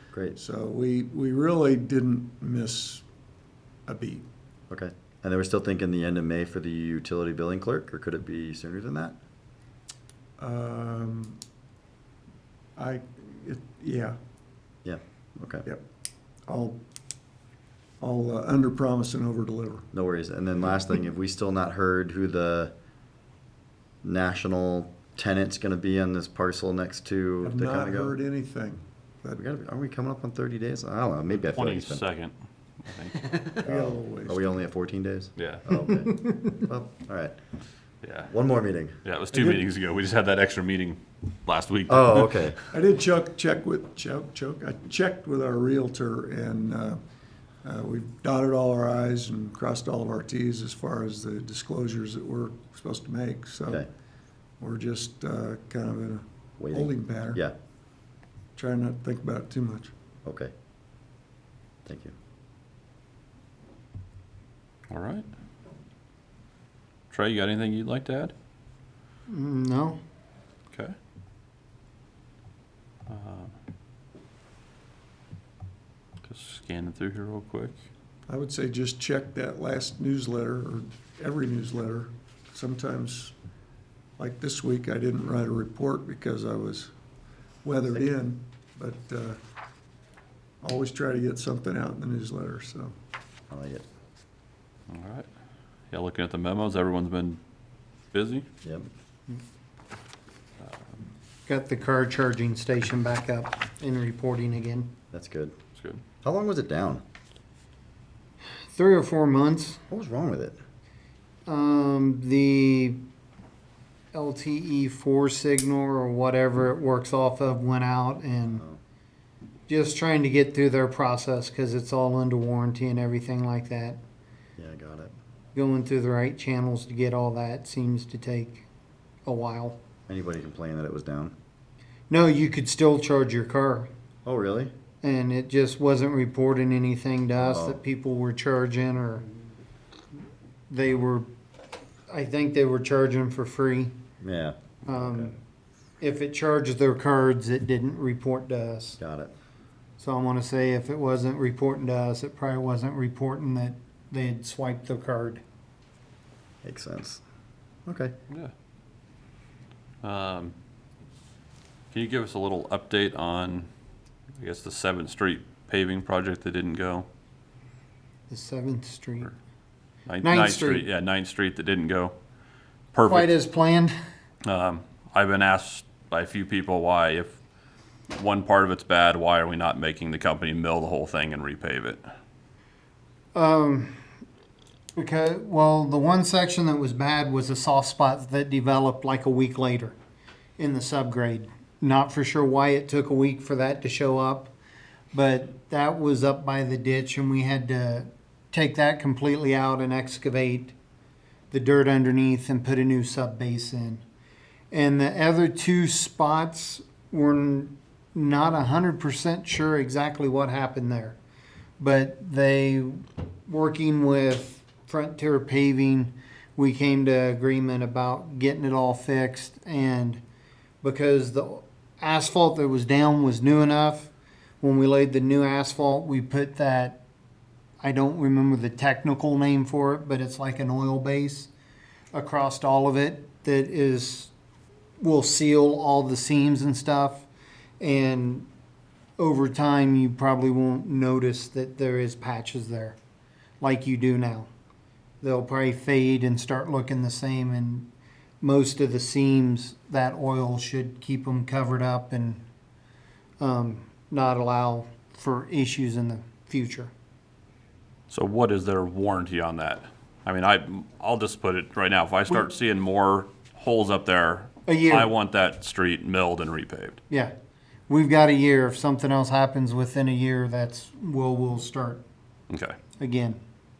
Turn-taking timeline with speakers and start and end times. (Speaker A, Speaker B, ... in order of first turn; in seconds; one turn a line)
Speaker A: 0.3-3.0
Speaker A: 3.9-4.3
Speaker B: 4.7-9.2
Speaker A: 10.4-11.4
Speaker A: 12.8-14.2
Speaker B: 14.8-15.7
Speaker A: 16.5-16.8
Speaker A: 18.0-19.9
Speaker B: 19.9-22.7
Speaker B: 24.0-28.1
Speaker A: 27.4-29.4
Speaker B: 29.4-32.0
Speaker C: 31.4-33.3
Speaker A: 33.6-34.6
Speaker B: 33.6-37.4
Speaker C: 35.4-35.7
Speaker C: 38.0-38.3
Speaker B: 38.3-39.0
Speaker C: 39.0-42.5
Speaker A: 39.3-39.6
Speaker B: 41.9-42.6
Speaker A: 42.7-47.0
Speaker A: 47.6-53.8
Speaker A: 54.6-57.4
Speaker B: 56.6-57.5
Speaker A: 58.5-59.9
Speaker B: 60.2-60.5
Speaker B: 61.9-62.1
Speaker C: 64.9-65.2
Speaker C: 67.1-68.3
Speaker D: 69.3-70.0
Speaker C: 73.1-73.5
Speaker C: 76.2-77.8
Speaker A: 78.3-83.3
Speaker A: 84.2-86.9
Speaker A: 87.6-89.4
Speaker A: 90.6-92.9
Speaker B: 93.5-93.8
Speaker C: 94.9-95.3
Speaker C: 95.9-97.4
Speaker C: 98.1-98.5
Speaker D: 101.5-104.9
Speaker B: 105.1-105.5
Speaker C: 105.8-106.0
Speaker B: 106.2-107.0
Speaker D: 108.7-109.8
Speaker B: 109.9-110.6
Speaker D: 111.5-113.0
Speaker D: 114.1-118.6
Speaker B: 118.5-118.8
Speaker D: 119.7-124.0
Speaker B: 124.6-125.1
Speaker D: 125.5-128.6
Speaker D: 129.2-129.8
Speaker B: 130.1-131.3
Speaker D: 132.1-133.9
Speaker B: 134.2-134.7
Speaker D: 135.0-139.3
Speaker B: 137.3-137.8
Speaker D: 140.7-141.3
Speaker D: 142.1-143.9
Speaker B: 144.2-145.3
Speaker D: 144.9-145.3
Speaker D: 146.0-149.0
Speaker B: 149.0-149.3
Speaker D: 150.0-155.4
Speaker B: 156.6-157.2
Speaker B: 157.8-158.1
Speaker C: 160.0-160.5
Speaker C: 161.9-163.7
Speaker C: 164.4-167.1
Speaker D: 168.3-169.3
Speaker C: 170.1-172.1
Speaker D: 170.2-170.8
Speaker C: 172.9-173.3
Speaker D: 173.1-173.9
Speaker C: 174.4-177.3
Speaker C: 178.1-182.0
Speaker D: 183.3-183.9
Speaker D: 184.9-189.9
Speaker D: 190.6-194.5
Speaker D: 195.1-200.7
Speaker D: 201.5-204.0
Speaker D: 204.7-211.2
Speaker D: 211.8-220.2
Speaker D: 220.8-227.0
Speaker D: 227.8-231.5
Speaker D: 232.1-234.3
Speaker D: 235.0-237.3
Speaker D: 237.8-238.5
Speaker D: 239.2-243.0
Speaker D: 243.6-244.5
Speaker D: 245.2-247.9
Speaker D: 248.4-252.4
Speaker D: 253.4-256.9
Speaker C: 258.1-267.0
Speaker D: 264.7-265.1
Speaker D: 267.9-272.0
Speaker C: 272.5-272.8
Speaker D: 273.0-273.4